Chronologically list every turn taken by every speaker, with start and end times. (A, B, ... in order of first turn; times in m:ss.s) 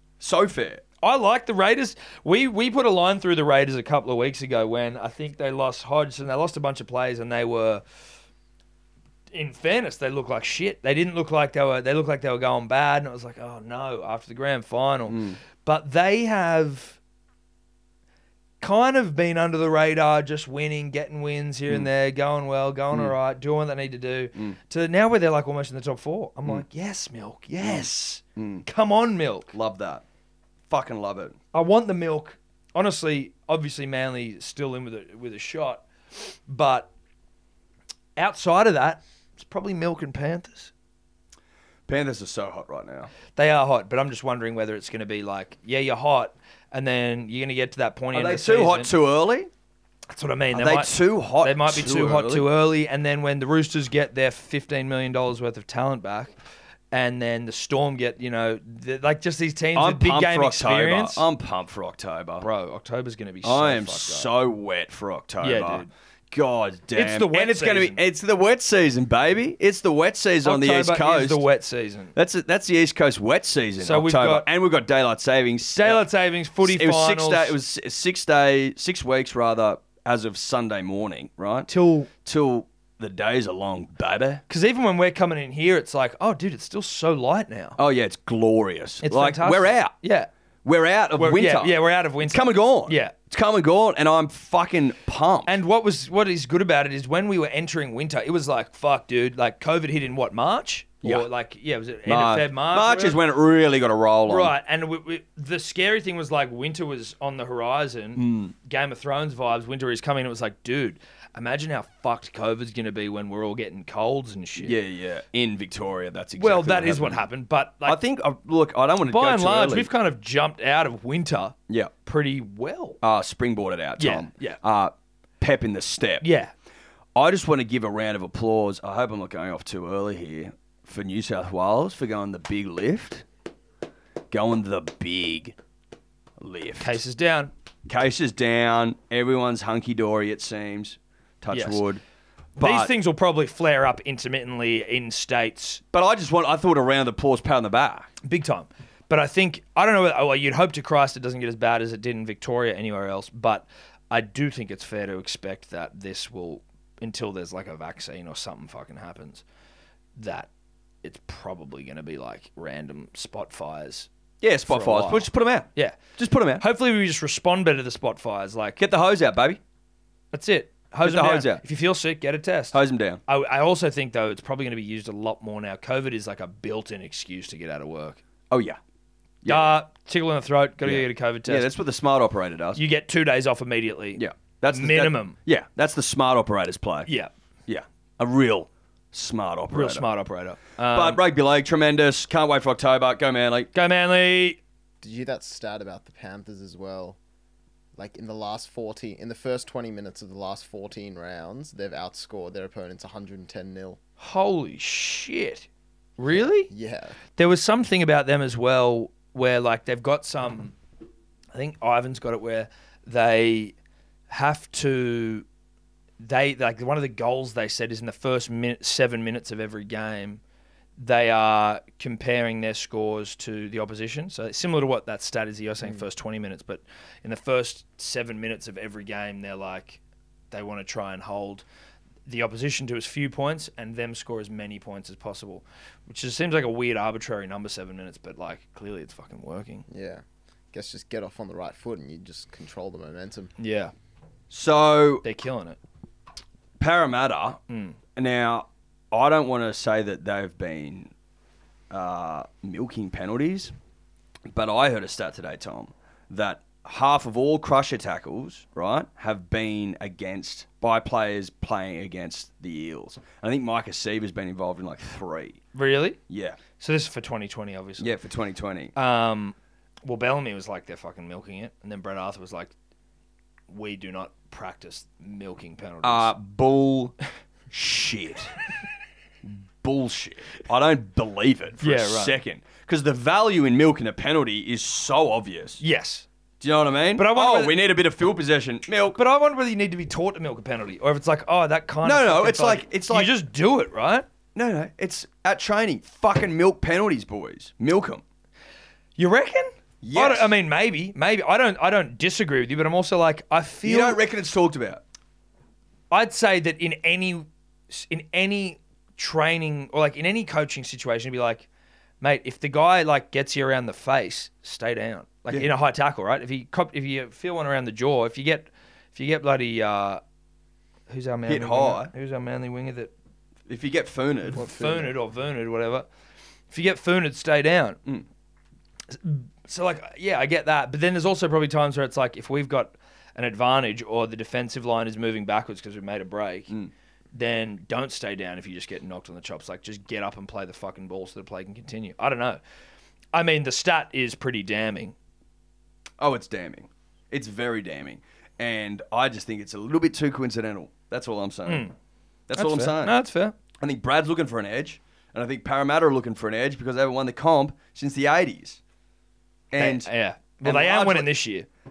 0:00.2-0:00.8 A
0:01.0-0:07.8 B
0:09.3-0:17.0 B
0:15.1-0:15.4 A
0:18.6-0:29.5 B
0:27.6-0:28.6 A
0:29.5-0:30.0 A
0:30.7-0:31.4 A
0:31.5-0:35.8 B
0:36.5-0:36.9 B
0:38.2-0:40.7 B
0:41.9-0:43.1 A
0:43.3-0:48.9 B
0:48.1-0:49.5 A
0:50.1-0:56.3 B
0:50.5-0:52.5 A
0:56.9-1:01.2 B
0:59.7-1:02.4 A
1:02.4-1:04.3 B
1:03.4-1:11.4 A
1:05.4-1:05.9 B
1:06.9-1:08.0 B
1:10.4-1:12.1 B
1:12.1-1:16.0 A
1:13.8-1:14.4 B
1:15.8-1:17.5 B
1:16.6-1:21.7 A
1:21.7-1:22.1 B
1:22.2-1:24.4 A
1:24.5-1:27.8 B
1:27.8-1:29.9 A
1:29.0-1:30.3 B
1:30.6-1:35.6 A
1:31.2-1:33.1 B
1:35.4-1:43.2 B
1:42.0-1:44.5 A
1:44.3-1:54.8 B
1:48.2-1:48.5 A
1:54.6-1:57.2 A
1:56.4-1:58.0 B
1:57.8-1:59.9 A
1:59.1-2:03.0 B
2:03.0-2:06.2 A
2:04.0-2:04.6 B
2:06.2-2:06.5 B
2:07.2-2:13.2 A
2:14.3-2:15.5 A
2:16.4-2:17.0 A
2:16.8-2:17.5 B
2:17.9-2:22.0 A
2:21.5-2:21.8 B
2:22.6-2:22.9 A
2:22.6-2:25.8 B
2:25.9-2:28.1 A
2:28.2-2:39.4 B
2:40.2-2:40.5 B
2:41.0-2:44.1 B
2:44.4-2:46.6 A
2:44.7-2:46.1 B
2:46.6-2:48.8 B
2:48.8-2:49.6 A
2:50.3-2:58.2 B
2:51.0-2:51.6 A
2:52.7-2:53.2 A
2:58.5-2:58.8 A
2:59.4-2:59.8 A
2:59.4-3:01.6 B
3:00.8-3:02.8 A
3:02.8-3:05.4 B
3:04.2-3:07.1 A
3:07.0-3:07.3 B
3:07.7-3:10.1 A
3:09.7-3:11.2 B
3:10.9-3:13.7 A
3:13.7-3:14.6 B
3:15.0-3:17.2 C
3:18.0-3:24.0 C
3:24.2-3:25.7 B
3:26.2-3:26.7 B
3:26.3-3:27.2 C
3:27.4-3:30.7 B
3:31.5-3:33.7 B
3:34.3-3:35.4 B
3:36.2-3:40.4 B
3:41.0-3:50.0 B
3:50.5-3:51.6 B
3:52.2-3:59.8 B
3:59.9-4:03.5 C
4:03.6-4:03.9 B
4:04.5-4:05.2 A
4:05.2-4:05.8 B
4:06.8-4:07.6 A
4:07.7-4:08.0 B
4:08.2-4:11.1 A
4:11.9-4:13.7 A
4:14.5-4:25.6 A
4:25.7-4:26.2 B
4:26.3-4:26.6 A
4:26.8-4:28.1 B
4:28.0-4:28.9 A
4:28.9-4:32.7 B
4:33.7-4:36.3 B
4:36.0-4:37.1 A
4:37.7-4:38.5 A
4:39.4-4:45.8 A
4:41.8-4:42.3 B
4:45.8-4:46.2 B
4:46.6-4:49.2 A
4:47.2-4:47.8 B
4:49.1-4:54.2 B
4:52.0-4:53.3 A
4:54.5-4:58.2 A
4:59.2-5:04.2 B
5:00.0-5:00.5 A
5:03.8-5:05.0 A
5:06.1-5:11.7 B
5:12.2-5:20.2 B
5:21.1-5:23.1 B
5:21.5-5:22.1 A
5:23.7-5:24.6 A
5:24.5-5:26.1 B
5:24.5-5:25.1 C
5:26.7-5:28.0 B
5:29.1-5:36.7 B
5:37.3-5:42.6 B
5:43.3-5:45.1 B
5:46.2-5:51.8 A
5:51.6-5:51.9 B
5:52.5-5:53.2 A
5:52.6-5:53.6 B
5:53.8-5:58.8 A
5:59.7-6:00.1 A
5:59.8-6:01.7 B
6:00.6-6:01.3 A